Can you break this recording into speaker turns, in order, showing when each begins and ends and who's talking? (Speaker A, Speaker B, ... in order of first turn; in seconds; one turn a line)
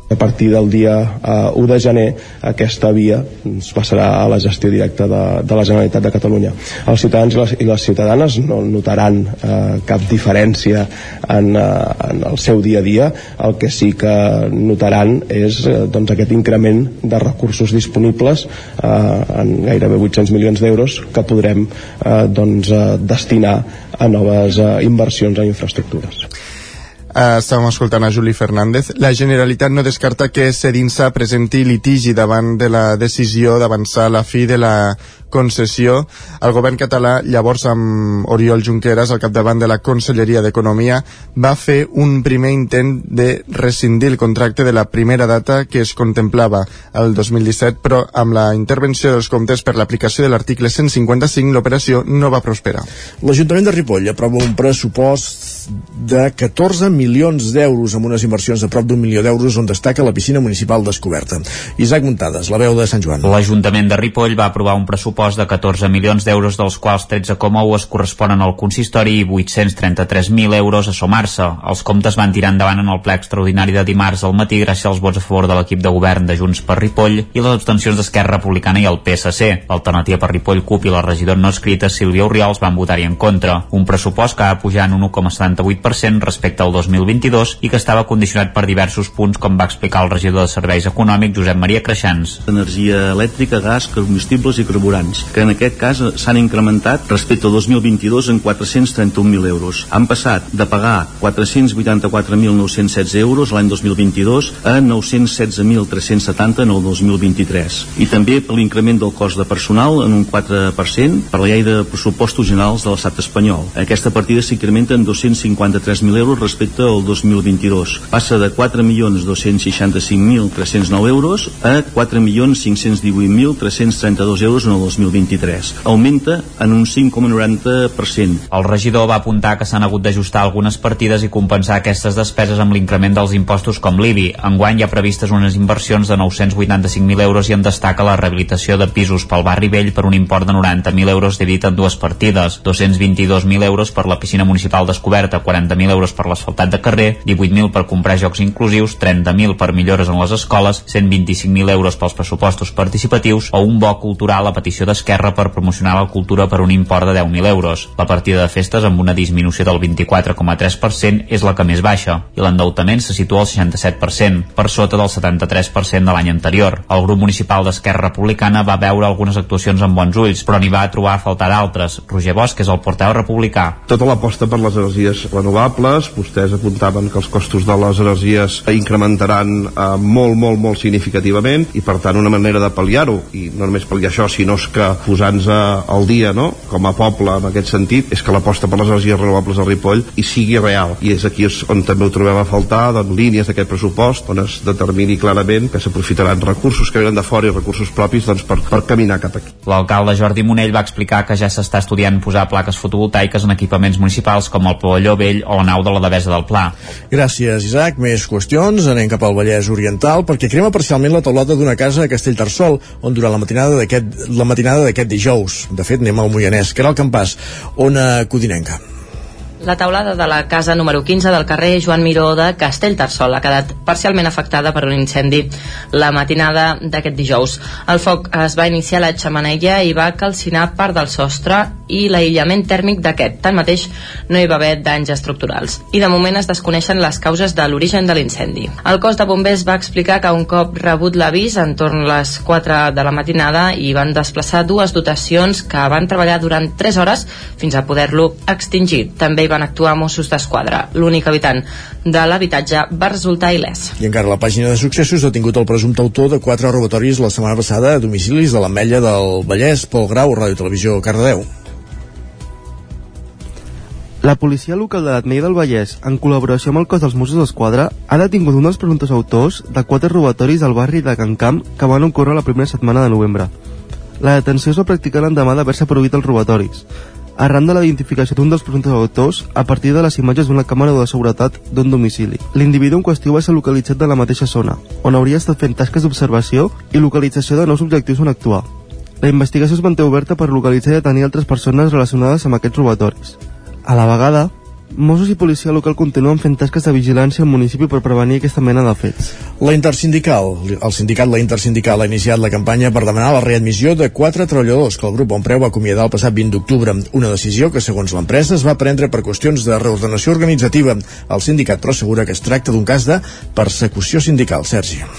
Speaker A: 0.1-26.2
Speaker B: 27.1-52.9
Speaker C: 53.2-63.3
Speaker D: 63.2-92.4
Speaker E: 92.5-128.4
Speaker D: 128.5-173.8
Speaker F: 173.9-199.5
Speaker D: 199.7-206.7
Speaker C: 207.1-218.8
Speaker G: 219.6-253.9
Speaker C: 254.0-261.5
Speaker H: 264.2-273.5
Speaker H: 274.2-276.9
Speaker H: 277.4-288.7
Speaker H: 289.2-299.3
Speaker C: 299.6-315.1